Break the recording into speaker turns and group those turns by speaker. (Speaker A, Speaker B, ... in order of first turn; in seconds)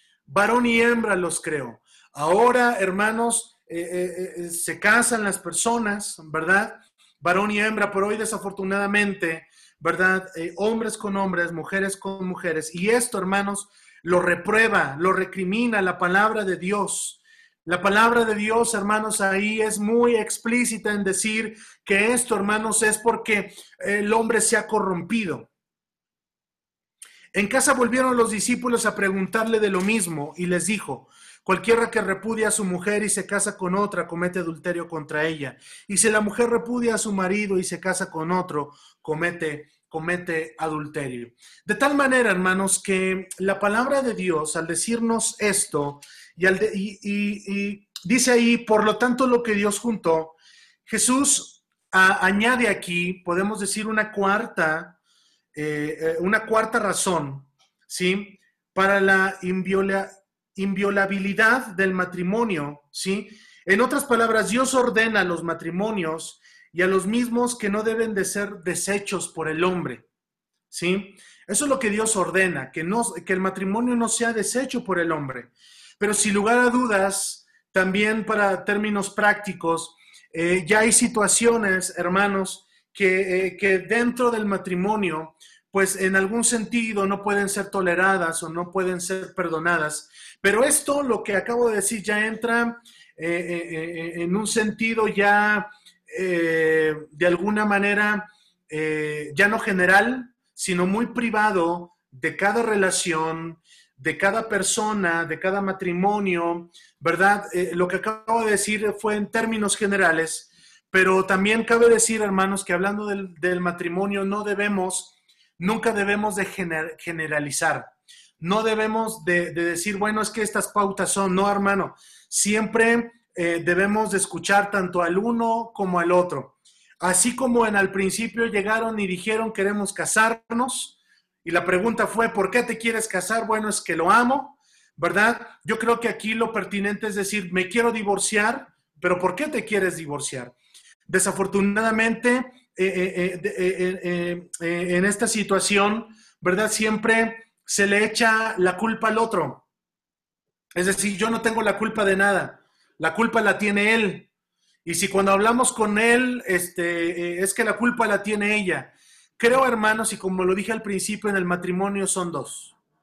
Speaker A: 0.3-25.5, 27.3-55.0, 55.5-70.0, 70.7-140.5, 141.1-149.6, 150.7-154.3, 154.8-162.8